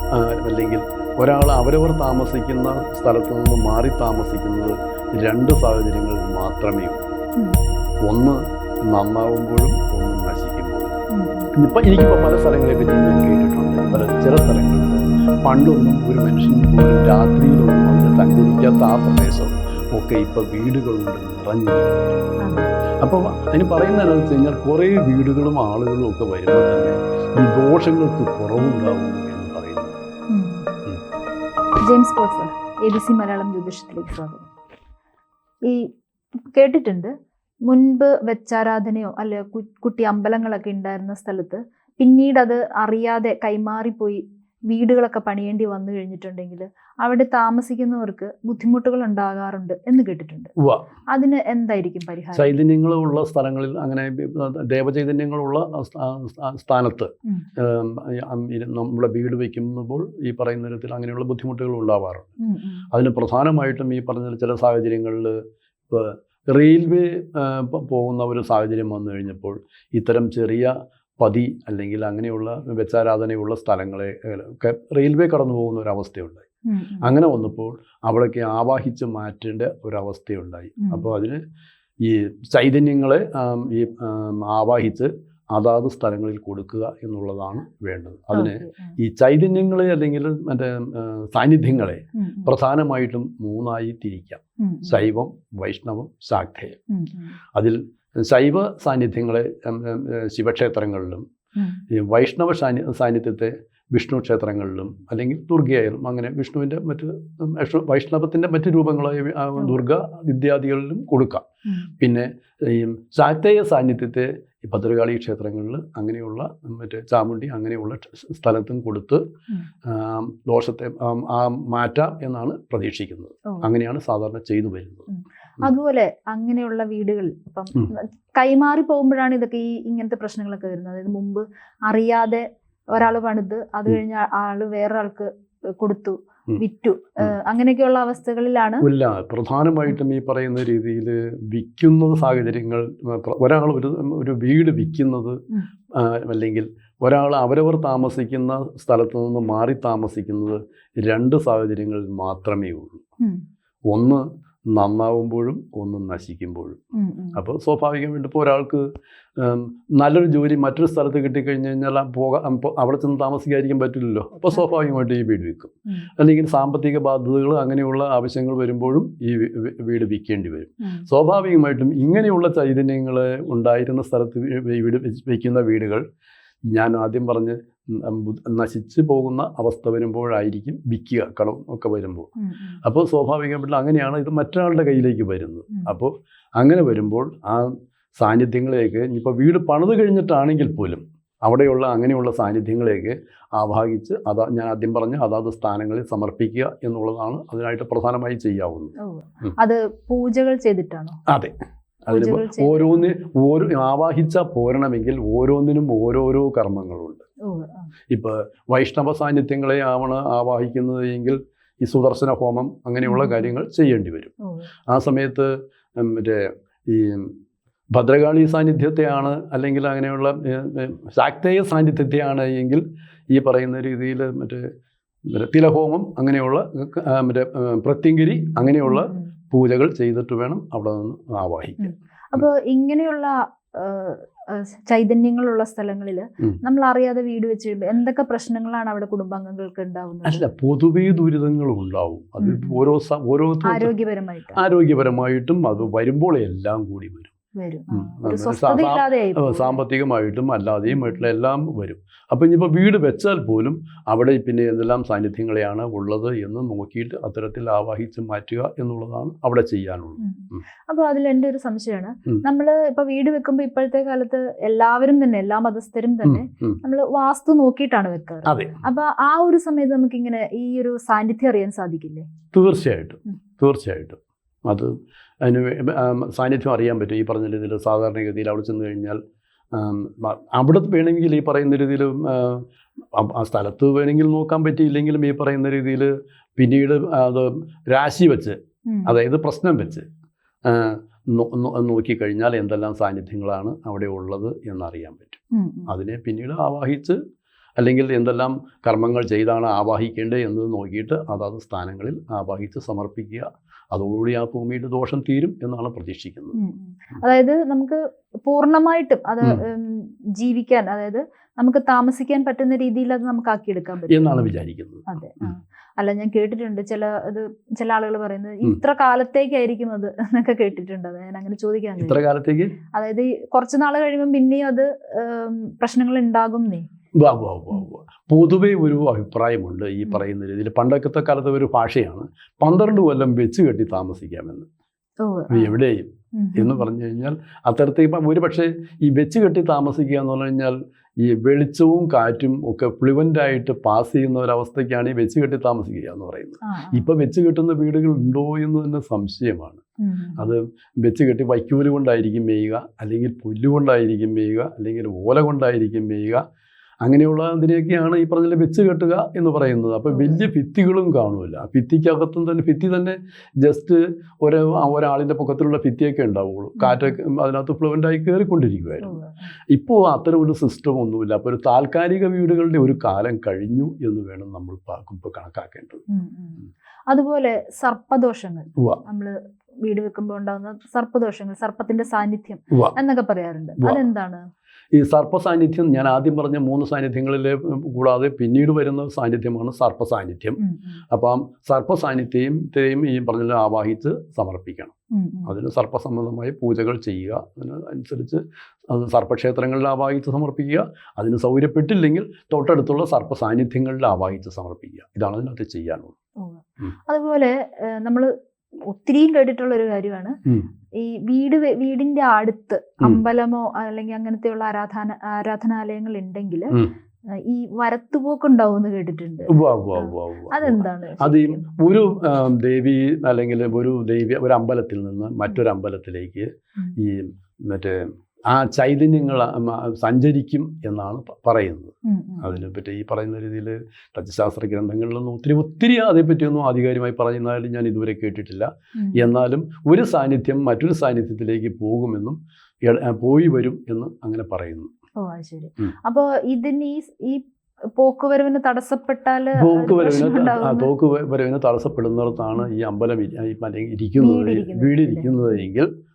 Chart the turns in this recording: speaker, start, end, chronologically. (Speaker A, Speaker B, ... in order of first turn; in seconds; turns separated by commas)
Speaker A: 0.1-7.0, Speaker A: 8.0-10.9, Speaker B: 11.1-11.5, Speaker A: 11.5-22.2, Speaker B: 22.4-22.7, Speaker A: 23.0-29.9, Speaker B: 30.3-30.8, Speaker B: 31.8-34.4, Speaker B: 35.6-37.1, Speaker B: 37.7-50.5, Speaker A: 50.6-50.9, Speaker B: 51.1-52.5, Speaker A: 52.3-62.3, Speaker B: 62.4-62.8, Speaker A: 62.9-65.4, Speaker A: 65.9-76.5, Speaker B: 76.7-77.1, Speaker A: 77.0-81.4, Speaker B: 80.8-81.1, Speaker A: 82.0-96.8, Speaker B: 88.3-88.9, Speaker B: 92.2-92.5, Speaker B: 94.6-95.0, Speaker B: 96.9-97.4, Speaker A: 97.5-101.2, Speaker B: 101.5-101.8, Speaker A: 101.9-111.5, Speaker B: 111.7-111.9, Speaker A: 112.0-119.2, Speaker A: 119.9-125.1, Speaker B: 125.1-138.8, Speaker A: 138.8-145.4, Speaker A: 145.9-153.0, Speaker A: 153.9-156.8, Speaker B: 156.9-157.4, Speaker A: 157.3-158.8, Speaker A: 159.4-176.0, Speaker B: 170.8-171.1, Speaker A: 176.7-182.3, Speaker B: 182.4-182.8, Speaker A: 182.8-199.5, Speaker B: 199.0-201.2, Speaker A: 201.3-201.5, Speaker A: 202.1-207.2, Speaker B: 202.1-203.1, Speaker B: 207.4-207.9, Speaker A: 208.1-214.3, Speaker B: 213.0-213.5, Speaker B: 214.4-214.7, Speaker A: 214.9-217.3, Speaker A: 217.9-224.7, Speaker A: 225.3-231.9, Speaker B: 228.8-229.3, Speaker B: 231.8-240.4, Speaker A: 240.2-243.9, Speaker B: 242.4-242.8, Speaker B: 243.6-244.6, Speaker A: 244.6-247.3, Speaker B: 247.6-249.8, Speaker A: 247.9-260.6, Speaker B: 250.9-251.2, Speaker B: 260.2-272.3, Speaker A: 266.2-266.8, Speaker A: 268.4-268.8, Speaker A: 272.5-279.2, Speaker A: 279.7-290.1, Speaker B: 288.9-289.1, Speaker A: 290.6-297.2, Speaker B: 295.5-295.9, Speaker A: 297.8-306.6, Speaker B: 306.6-314.4, Speaker A: 314.1-315.5, Speaker B: 315.1-322.2, Speaker A: 322.0-322.8, Speaker B: 322.9-326.9, Speaker A: 327.2-334.7, Speaker B: 335.2-335.7, Speaker A: 335.5-349.8, Speaker B: 336.4-336.8, Speaker B: 346.6-347.1, Speaker B: 350.0-350.5, Speaker A: 350.4-356.4, Speaker A: 357.0-369.2, Speaker B: 360.1-360.4, Speaker B: 366.8-367.1, Speaker B: 369.0-369.5, Speaker A: 369.7-376.0, Speaker B: 376.1-384.4, Speaker A: 384.9-390.6, Speaker B: 390.6-391.0, Speaker A: 391.1-394.9, Speaker B: 395.1-395.5, Speaker A: 395.5-406.1, Speaker B: 406.4-408.3, Speaker B: 408.9-410.4, Speaker B: 411.0-416.7, Speaker B: 417.3-421.7, Speaker A: 419.5-444.9, Speaker B: 432.1-432.5, Speaker B: 439.0-439.3, Speaker B: 445.2-447.4, Speaker B: 447.9-450.9, Speaker A: 449.6-455.9, Speaker B: 454.2-455.5